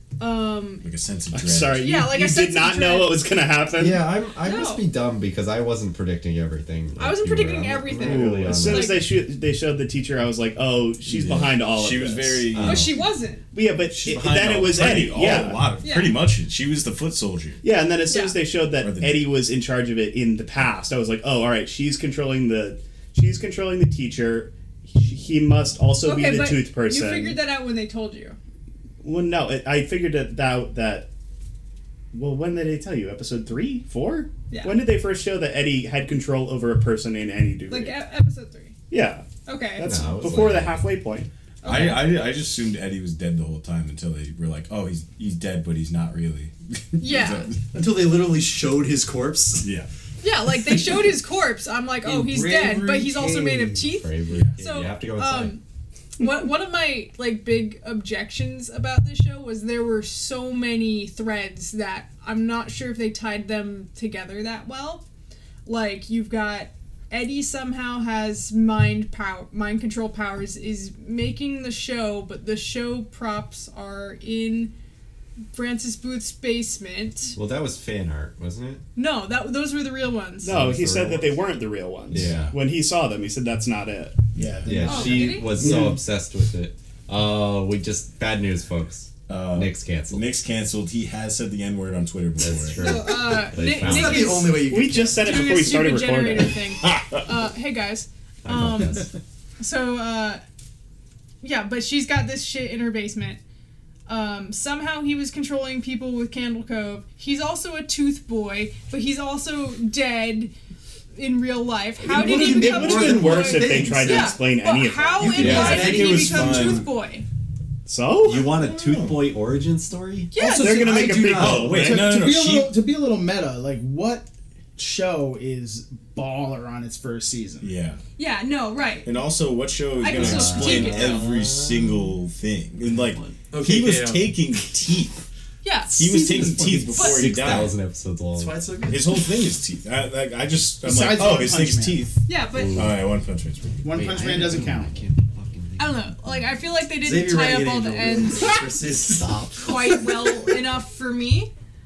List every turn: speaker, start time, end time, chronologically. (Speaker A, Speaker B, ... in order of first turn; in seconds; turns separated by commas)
Speaker A: 0.2-0.9, Speaker B: 0.8-1.9, Speaker C: 1.3-4.0, Speaker A: 1.7-3.4, Speaker D: 3.7-9.0, Speaker A: 4.4-4.8, Speaker A: 7.0-9.1, Speaker C: 8.0-12.6, Speaker B: 11.1-13.0, Speaker D: 12.5-13.0, Speaker A: 12.6-13.5, Speaker C: 13.5-15.8, Speaker B: 13.9-17.6, Speaker A: 15.8-16.2, Speaker C: 17.6-27.4, Speaker A: 18.1-18.4, Speaker B: 18.8-19.3, Speaker A: 26.0-28.4, Speaker C: 29.0-31.1, Speaker C: 32.1-38.0, Speaker A: 34.5-34.9, Speaker A: 37.7-38.8, Speaker C: 38.9-41.3, Speaker A: 39.5-40.1, Speaker D: 39.8-40.9, Speaker A: 41.6-42.2, Speaker B: 41.6-47.6, Speaker A: 47.0-47.6, Speaker E: 47.7-49.7, Speaker B: 49.6-49.9, Speaker A: 50.2-55.6, Speaker F: 52.0-53.9, Speaker D: 53.9-55.6, Speaker B: 54.3-54.6, Speaker A: 56.2-65.0, Speaker A: 65.7-74.7, Speaker A: 75.5-77.3, Speaker D: 77.3-78.8, Speaker A: 79.0-80.6, Speaker C: 80.4-84.2, Speaker D: 80.5-81.3, Speaker D: 82.1-82.5, Speaker B: 82.1-82.5, Speaker B: 84.4-85.0, Speaker F: 84.5-85.8, Speaker D: 84.7-90.3, Speaker A: 84.9-85.6, Speaker C: 85.7-85.9, Speaker B: 89.3-93.2, Speaker D: 92.4-94.5, Speaker A: 92.7-94.6, Speaker E: 93.7-95.4, Speaker C: 94.6-96.6, Speaker A: 95.2-100.4, Speaker B: 96.8-97.2, Speaker D: 98.4-99.1, Speaker A: 101.4-103.4, Speaker A: 104.1-110.5, Speaker A: 111.2-117.3, Speaker C: 112.0-115.7, Speaker E: 112.1-114.4, Speaker E: 115.2-116.8, Speaker D: 115.4-116.0, Speaker B: 115.4-116.9, Speaker C: 117.9-118.6, Speaker D: 118.2-120.3, Speaker B: 118.6-119.2, Speaker A: 120.3-121.2, Speaker E: 120.4-121.9, Speaker C: 120.4-122.0, Speaker B: 121.3-122.8, Speaker F: 121.7-127.7, Speaker B: 127.6-128.0, Speaker A: 128.2-129.2, Speaker B: 129.1-135.2, Speaker A: 130.0-131.2, Speaker D: 130.1-132.1, Speaker D: 132.8-133.4, Speaker E: 133.5-134.4, Speaker A: 135.6-137.3, Speaker B: 135.9-137.8, Speaker D: 136.8-138.6, Speaker E: 138.3-139.2, Speaker B: 138.9-142.2, Speaker F: 140.8-142.1, Speaker A: 142.3-142.9, Speaker D: 142.5-143.1, Speaker B: 142.7-143.9, Speaker F: 143.8-145.0, Speaker D: 143.9-146.5, Speaker A: 145.8-148.7, Speaker E: 147.0-149.6, Speaker D: 149.1-150.4, Speaker A: 149.6-151.5